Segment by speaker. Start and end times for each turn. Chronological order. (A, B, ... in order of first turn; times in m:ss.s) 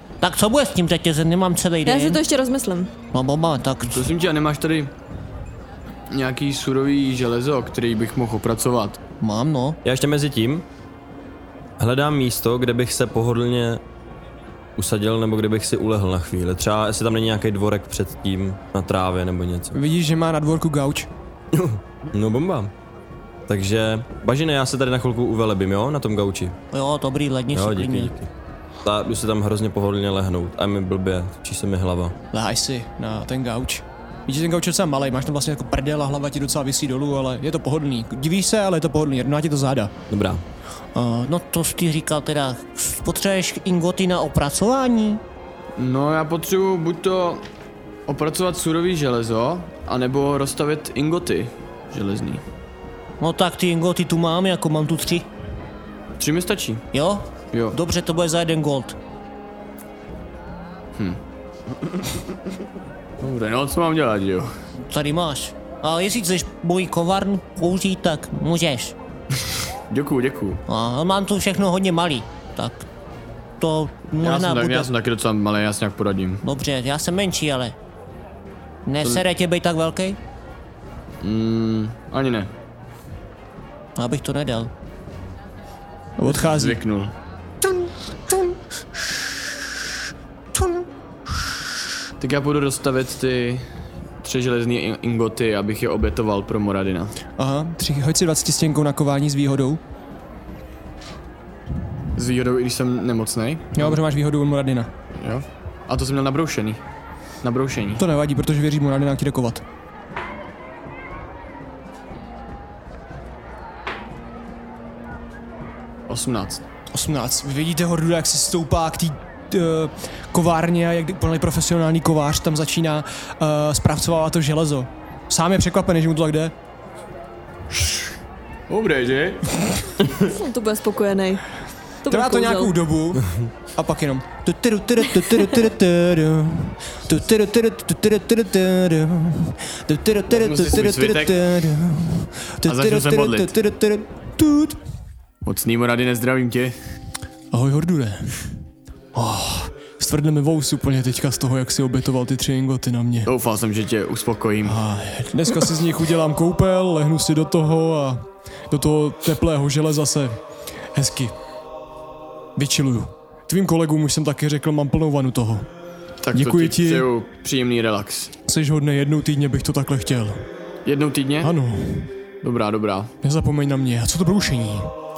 0:00.2-0:02.2 A
0:01.8-0:02.9 B
0:03.1-0:04.1 A
0:03.8-0:04.9 C
0:06.1-0:09.0 C
0:09.2-0:09.8 A
0:09.8-0:10.7 D
0:11.8-0:13.8 D
0:14.8-0:19.8 D
0:19.7-0:21.1 E
0:21.5-0:22.7 D
0:23.5-0:26.6 D
0:26.7-0:28.2 A
0:27.5-0:28.3 D
0:28.8-0:32.2 D
0:32.3-0:39.9 E
0:40.1-0:40.4 D
0:41.0-0:45.2 A
0:45.8-0:47.5 C
0:48.1-0:52.4 C
0:53.2-0:55.3 A
0:56.2-0:56.9 C
0:56.9-0:59.0 A
0:57.5-0:57.8 C
1:03.2-1:04.5 C
1:04.9-1:09.0 A
1:09.9-1:10.6 C
1:10.7-1:12.9 A
1:13.6-1:14.9 A
1:14.2-1:16.4 C
1:16.4-1:17.8 A
1:18.8-1:20.2 A
1:21.2-1:22.5 C
1:24.0-1:24.7 A
1:26.2-1:26.8 E
1:26.3-1:27.1 C
1:32.2-1:33.6 C
1:34.2-1:37.2 C
1:37.4-1:39.8 E
1:42.2-1:44.0 C
1:43.8-1:44.9 E
1:45.2-1:46.8 C
1:47.4-1:48.0 C
1:48.0-1:49.6 E
1:56.1-1:56.6 C
1:56.9-2:06.5 E
2:07.7-2:08.1 C
2:08.7-2:09.6 C
2:10.2-2:11.4 B
2:12.0-2:12.8 B
2:12.1-2:17.4 E
2:14.6-2:16.3 A
2:17.2-2:24.1 A
2:20.3-2:21.4 C
2:22.6-2:23.5 C
2:24.4-2:24.8 E
2:25.4-2:26.8 C
2:27.5-2:28.4 E
2:29.2-2:33.3 E
2:33.3-2:34.8 C
2:34.6-2:40.4 E
2:40.9-2:41.4 E
2:42.6-2:45.7 E
2:46.2-2:48.3 C
2:46.3-2:47.1 E
2:48.5-2:50.5 E
2:50.8-2:51.5 C
2:51.4-2:52.1 E
2:52.4-2:53.1 C
2:53.2-2:54.9 E